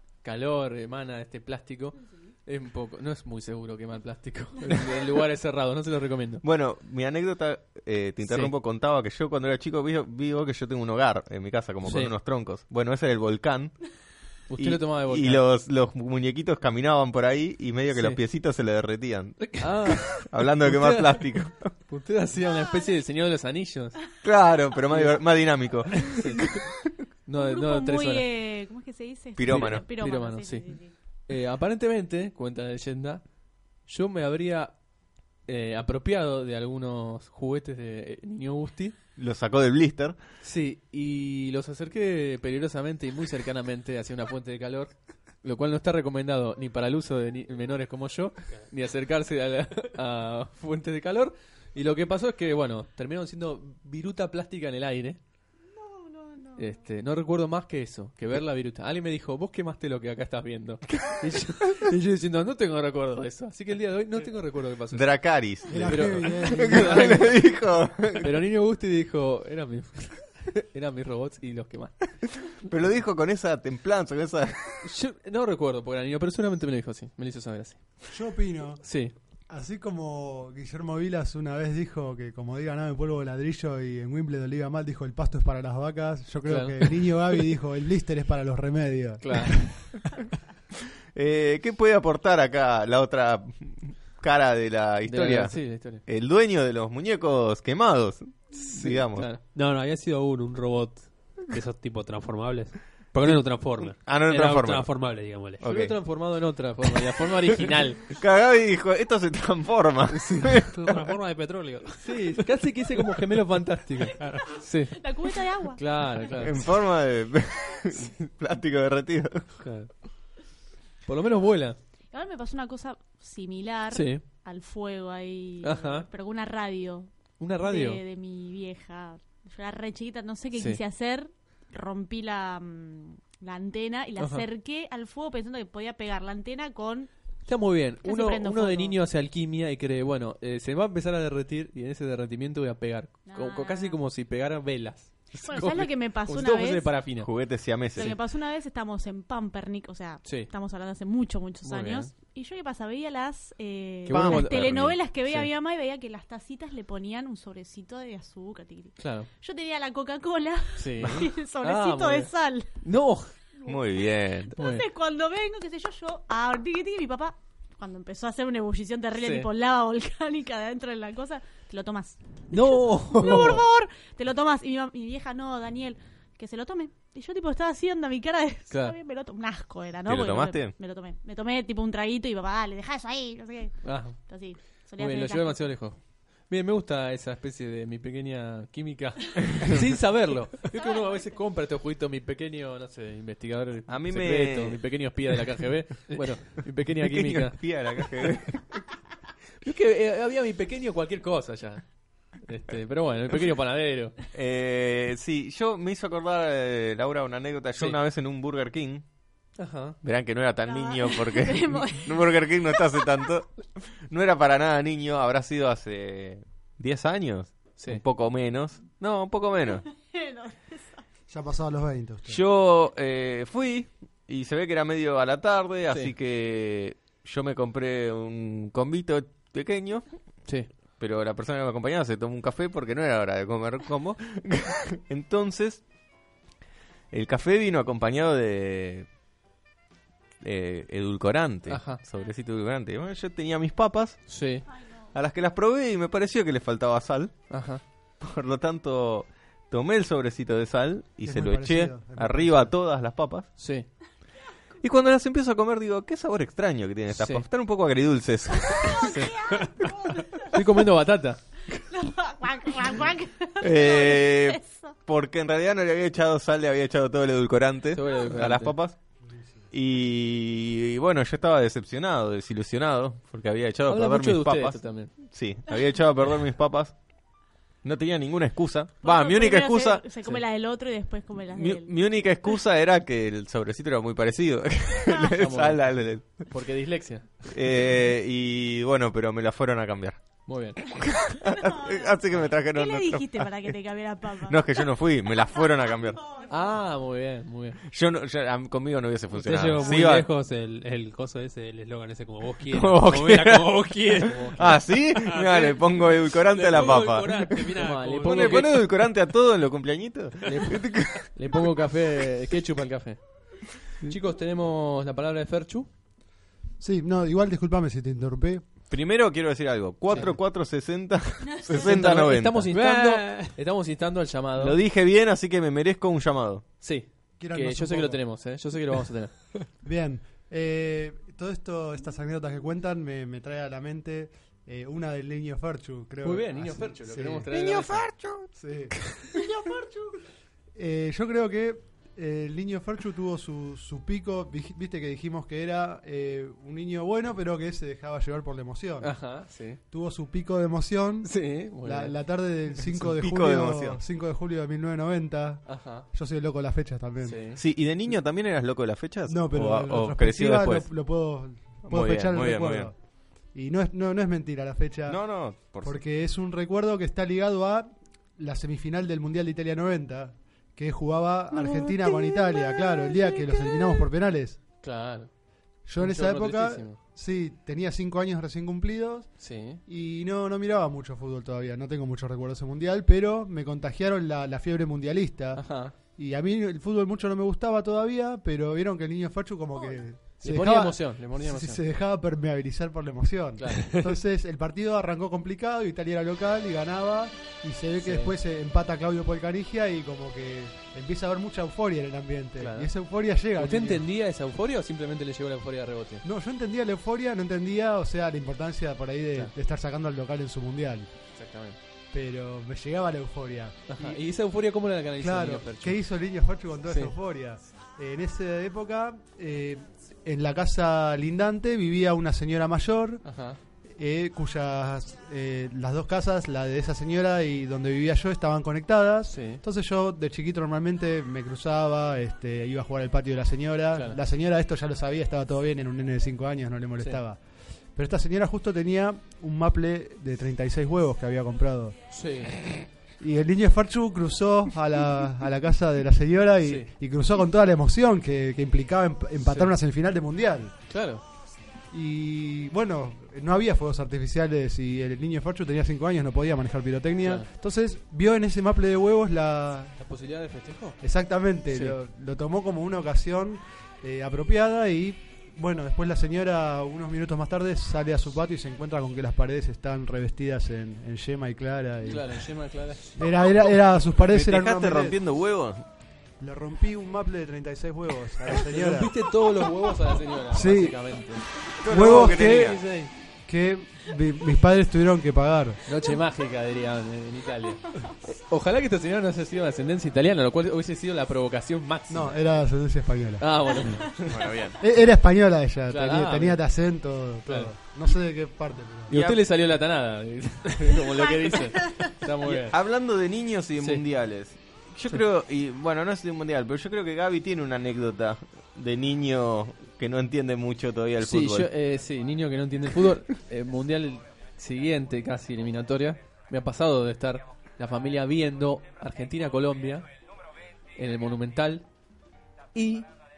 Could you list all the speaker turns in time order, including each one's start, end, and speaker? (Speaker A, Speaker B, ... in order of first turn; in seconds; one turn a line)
Speaker A: 0.2-6.4
Speaker B: 6.4-13.8
Speaker A: 8.2-8.6
Speaker A: 11.8-12.1
Speaker A: 14.5-15.4
Speaker B: 14.6-21.7
Speaker A: 17.9-18.2
Speaker A: 19.4-21.3
Speaker A: 21.9-24.0
Speaker B: 24.2-26.8
Speaker A: 24.9-25.2
Speaker A: 26.0-26.6
Speaker A: 27.3-28.3
Speaker C: 27.4-30.9
Speaker B: 29.4-29.9
Speaker A: 29.4-33.2
Speaker A: 33.9-34.8
Speaker A: 35.5-39.0
Speaker B: 39.2-40.2
Speaker A: 40.4-55.2
Speaker C: 55.8-56.6
Speaker A: 56.6-65.1
Speaker B: 64.9-68.3
Speaker D: 65.7-67.3
Speaker A: 65.7-67.3
Speaker A: 68.2-72.1
Speaker B: 72.5-74.9
Speaker A: 74.8-77.8
Speaker D: 78.1-78.8
Speaker A: 78.8-79.1
Speaker D: 79.5-90.0
Speaker A: 86.5-87.4
Speaker A: 89.2-89.5
Speaker B: 91.1-99.3
Speaker A: 95.1-96.0
Speaker A: 98.5-99.4
Speaker E: 99.4-105.6
Speaker B: 103.2-104.9
Speaker B: 105.6-106.0
Speaker A: 105.6-108.1
Speaker B: 107.6-111.1
Speaker A: 110.1-110.6
Speaker E: 110.7-112.0
Speaker A: 112.0-115.0
Speaker E: 114.2-114.6
Speaker C: 115.0-115.8
Speaker A: 115.8-116.7
Speaker B: 116.4-119.5
Speaker E: 119.6-119.9
Speaker A: 121.0-121.8
Speaker C: 122.1-137.1
Speaker A: 123.9-124.2
Speaker A: 125.6-126.1
Speaker A: 127.4-128.0
Speaker A: 130.5-130.8
Speaker A: 134.2-134.5
Speaker A: 137.5-147.3
Speaker C: 138.0-139.0
Speaker C: 143.3-144.0
Speaker C: 145.4-146.9
Speaker B: 147.2-148.1
Speaker A: 147.9-148.2
Speaker C: 147.9-162.7
Speaker A: 150.2-150.5
Speaker A: 151.6-152.1
Speaker A: 154.1-155.5
Speaker B: 154.1-154.9
Speaker A: 159.0-159.3
Speaker A: 160.8-162.3
Speaker A: 162.8-163.3
Speaker C: 163.6-185.6
Speaker B: 163.7-164.5
Speaker A: 164.6-164.8
Speaker A: 169.2-169.5
Speaker A: 172.5-173.7
Speaker A: 178.7-179.0
Speaker B: 180.1-180.7
Speaker A: 183.8-184.2
Speaker A: 185.0-197.6
Speaker B: 193.9-194.8
Speaker B: 197.0-198.8
Speaker A: 199.6-204.2
Speaker B: 204.3-209.0
Speaker A: 209.6-210.0
Speaker B: 210.0-219.8
Speaker C: 210.7-213.3
Speaker A: 217.8-218.0
Speaker C: 219.7-221.0
Speaker D: 221.3-222.4
Speaker B: 222.3-230.1
Speaker A: 225.9-226.1
Speaker B: 231.0-235.8
Speaker B: 237.1-239.1
Speaker B: 240.4-244.2
Speaker A: 241.7-242.0
Speaker A: 244.3-244.7
Speaker B: 245.1-247.4
Speaker A: 247.5-247.8
Speaker B: 248.2-253.5
Speaker D: 251.2-252.7
Speaker A: 253.6-253.9
Speaker B: 254.8-259.2
Speaker A: 257.1-257.4
Speaker C: 258.8-260.5
Speaker A: 258.9-259.6
Speaker A: 260.4-261.4
Speaker C: 261.9-265.0
Speaker B: 263.6-269.0
Speaker A: 267.9-268.8
Speaker B: 269.7-277.0
Speaker A: 273.9-275.1
Speaker B: 277.8-280.4
Speaker C: 279.0-281.9
Speaker B: 281.5-286.5
Speaker A: 285.4-287.6
Speaker B: 287.5-290.2
Speaker A: 290.5-290.8
Speaker C: 291.1-296.5
Speaker B: 291.2-293.8
Speaker B: 294.4-296.2
Speaker A: 296.4-297.8
Speaker B: 297.9-300.3
Speaker E: 299.3-308.7
Speaker B: 302.7-311.3
Speaker A: 307.8-308.9
Speaker A: 310.4-313.2
Speaker A: 314.0-315.9
Speaker D: 316.8-318.6
Speaker B: 318.9-322.7
Speaker A: 320.1-320.4
Speaker C: 321.5-321.9
Speaker A: 321.7-324.8
Speaker E: 322.7-323.6
Speaker B: 324.6-326.6
Speaker A: 326.8-329.5
Speaker D: 327.4-328.2
Speaker D: 329.8-337.5
Speaker A: 336.2-338.1
Speaker B: 337.5-339.6
Speaker D: 338.6-340.1
Speaker D: 340.8-349.2
Speaker A: 349.0-349.8
Speaker D: 349.9-357.4
Speaker A: 351.2-352.2
Speaker B: 352.9-354.0
Speaker A: 355.7-356.1
Speaker A: 357.2-357.6
Speaker B: 357.6-360.9
Speaker D: 359.3-363.0
Speaker B: 361.9-362.9
Speaker D: 363.5-365.2
Speaker B: 365.1-366.0
Speaker D: 365.8-374.6
Speaker A: 374.8-375.3
Speaker D: 375.9-379.3
Speaker A: 376.0-377.0
Speaker A: 379.4-379.8
Speaker D: 379.9-404.1
Speaker A: 385.6-385.9
Speaker A: 390.4-391.8
Speaker A: 393.6-393.9
Speaker A: 398.0-398.3
Speaker A: 402.6-402.9
Speaker A: 403.5-406.2
Speaker D: 406.2-411.1
Speaker A: 411.3-411.8
Speaker D: 412.1-414.2
Speaker A: 413.9-416.0
Speaker D: 415.2-423.2
Speaker A: 416.9-417.1
Speaker A: 423.2-423.6
Speaker D: 423.9-437.4
Speaker A: 429.3-429.6
Speaker A: 433.9-434.2
Speaker D: 437.9-441.9
Speaker A: 442.1-442.6
Speaker D: 443.2-450.7
Speaker A: 446.6-446.9
Speaker A: 449.5-449.7
Speaker A: 450.9-451.2
Speaker D: 451.9-460.0
Speaker A: 457.2-457.5
Speaker A: 460.0-461.0
Speaker D: 461.0-472.3
Speaker A: 461.7-462.0
Speaker A: 472.0-473.2
Speaker D: 473.2-475.2
Speaker B: 474.3-475.8
Speaker D: 476.4-479.1
Speaker A: 478.7-483.1
Speaker D: 480.5-481.0
Speaker B: 481.8-482.8
Speaker D: 481.8-482.8
Speaker D: 483.5-485.8
Speaker A: 485.9-492.4
Speaker D: 492.1-493.4
Speaker A: 493.4-494.5
Speaker C: 493.9-494.6
Speaker B: 494.3-494.8
Speaker D: 494.8-499.1
Speaker A: 495.9-496.6
Speaker A: 497.5-497.7
Speaker A: 499.1-502.8
Speaker B: 499.1-499.4
Speaker C: 501.5-502.1
Speaker B: 502.4-511.7
Speaker A: 503.8-504.1
Speaker A: 511.2-520.1
Speaker A: 521.0-521.9
Speaker A: 522.7-523.1